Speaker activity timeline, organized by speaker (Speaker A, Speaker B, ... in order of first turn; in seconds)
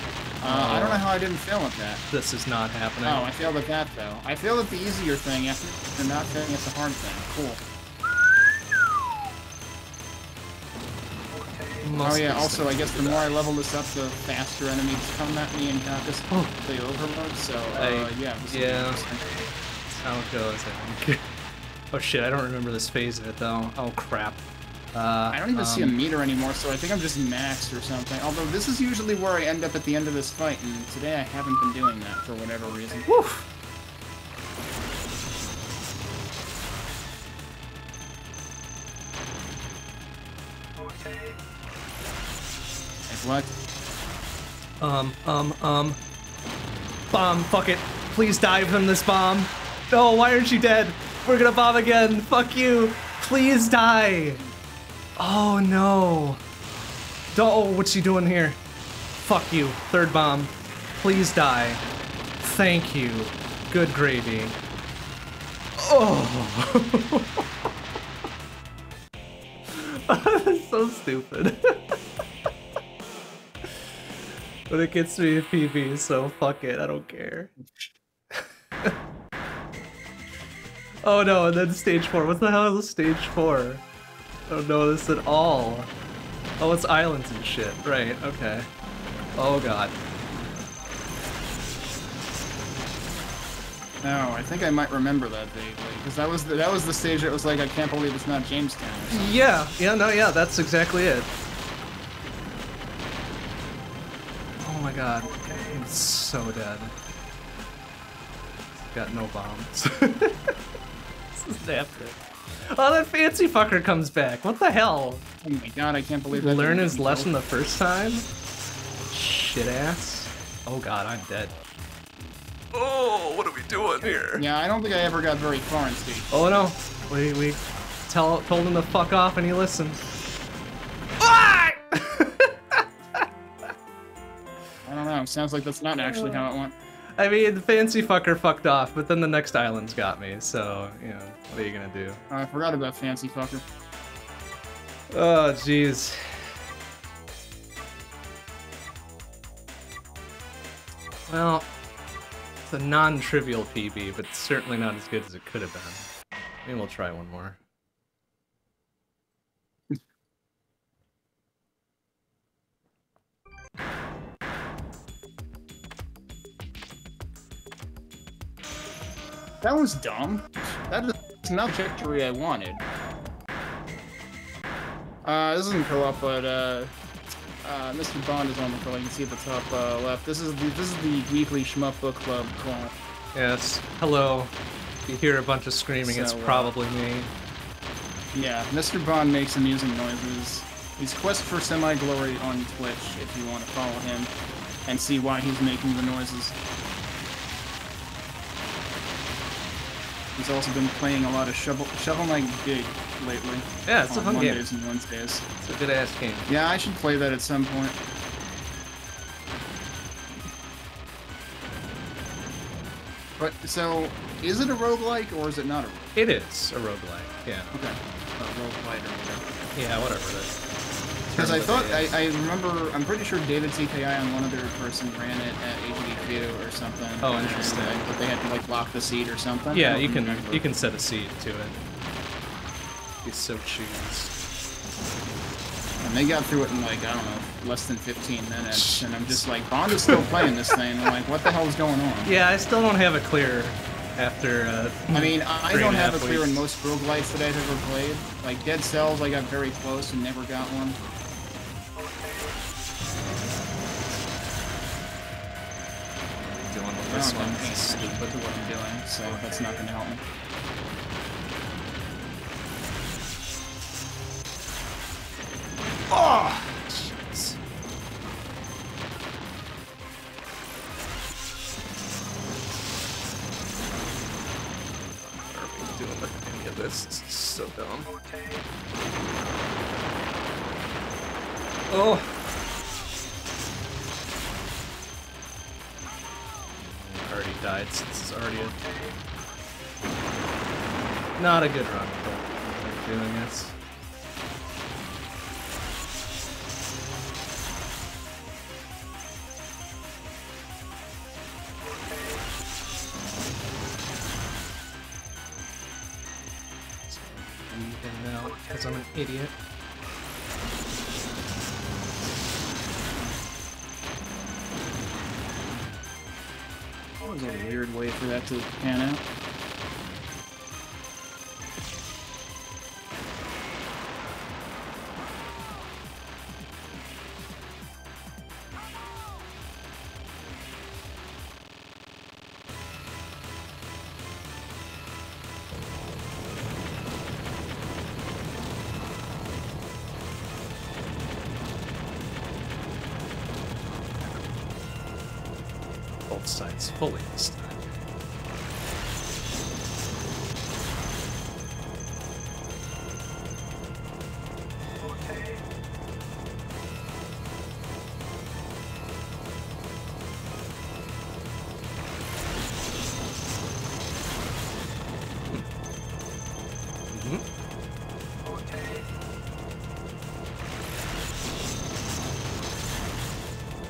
Speaker A: 0.4-2.0, 3.0-7.6, 12.0-19.3, 25.3-33.1, 43.1-43.5, 94.0-99.3, 115.4-117.3, 124.3-126.4, 134.8-136.7, 142.3-143.6, 169.6-172.8, 175.2-176.9, 177.6-182.9, 186.0-186.7, 188.3-194.3, 194.8-196.6, 200.3-205.5, 206.5-208.0, 213.4-216.2, 217.7-219.7, 221.3-230.6, 236.0-242.3, 245.1-251.0, 257.1-260.2, 317.2-319.2
Speaker B: 0.4-1.1, 2.1-3.3, 11.8-13.4, 16.3-16.5, 17.8-19.0, 19.9-21.3, 21.9-25.9, 33.1-33.5, 44.8-46.0, 47.1-54.4, 55.2-56.4, 57.3-58.6, 59.1-61.8, 62.4-64.6, 65.8-67.5, 69.7-72.0, 73.6-74.0, 74.7-77.5, 78.3-78.9, 81.0-83.8, 84.5-85.9, 86.6-88.7, 89.3-89.9, 99.1-101.3, 104.6-106.9, 108.8-110.6, 111.3-115.2, 116.3-118.3, 119.1-121.5, 122.7-124.4, 126.3-130.0, 131.2-133.3, 136.0-136.5, 137.2-142.2, 145.1-146.5, 151.3-151.7, 152.6-156.1, 156.6-157.6, 183.3-184.5, 185.1-187.3, 203.8-204.6, 205.6-206.5, 216.1-217.8, 219.7-220.6, 221.3-222.2, 227.2-228.1, 229.7-231.8, 233.2-234.3, 238.7-240.8, 242.2-246.7, 256.7-258.3, 266.1-267.6, 275.1-278.2, 281.9-282.4, 286.7-288.9, 291.4-293.7, 307.1-309.5, 346.3-347.9, 367.1-367.4